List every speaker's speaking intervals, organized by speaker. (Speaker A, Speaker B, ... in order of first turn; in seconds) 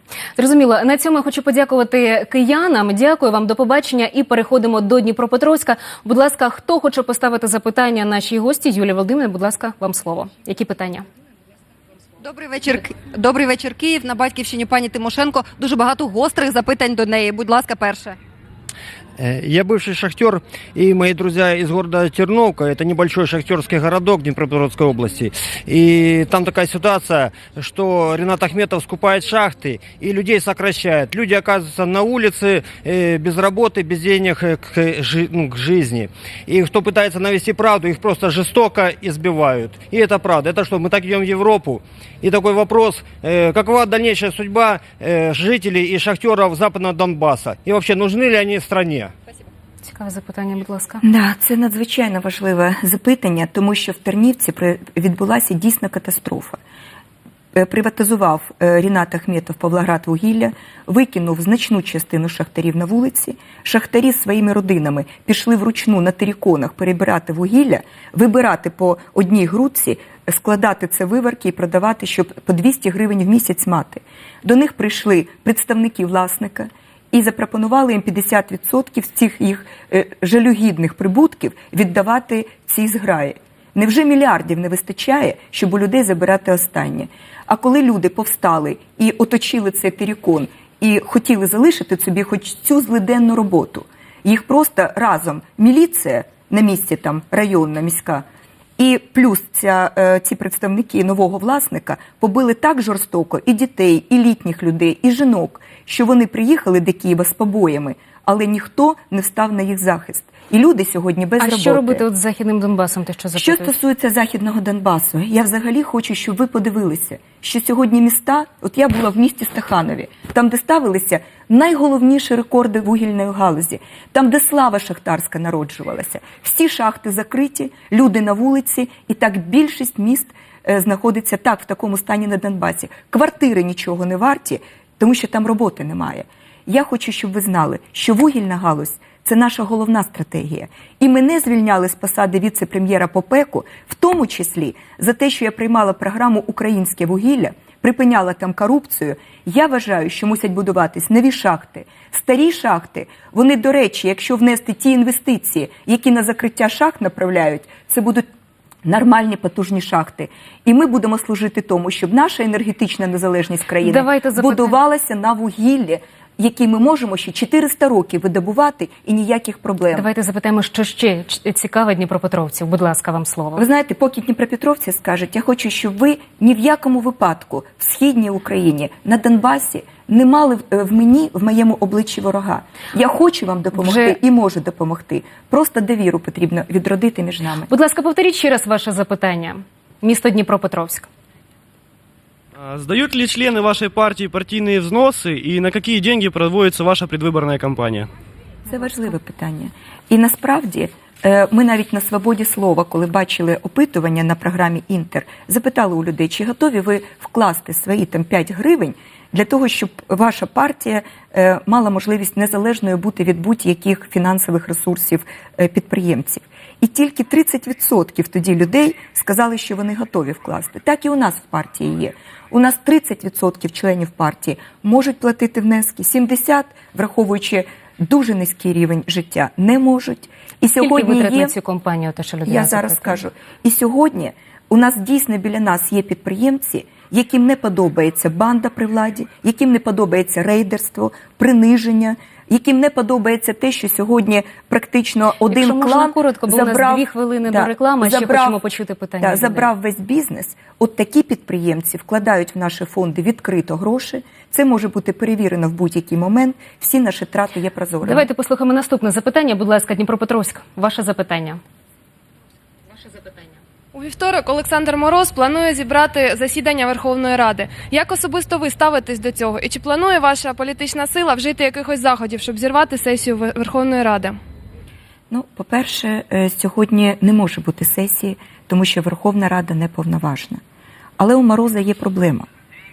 Speaker A: 0.4-11.1, 49.8-51.0, 111.4-113.7, 163.8-164.7, 169.9-173.7, 183.8-184.2, 187.7-191.1, 230.8-233.2, 245.5-249.7, 258.0-261.6
Speaker B: 12.2-18.2
Speaker C: 19.2-49.1
Speaker D: 51.0-56.6, 57.5-98.2, 98.8-112.0, 113.3-158.3, 158.8-170.1, 173.6-187.7, 198.7-231.6, 232.5-248.6, 249.2-258.3, 275.3-280.6, 281.2-282.5
Speaker E: 192.6-198.1
Speaker F: 263.9-274.4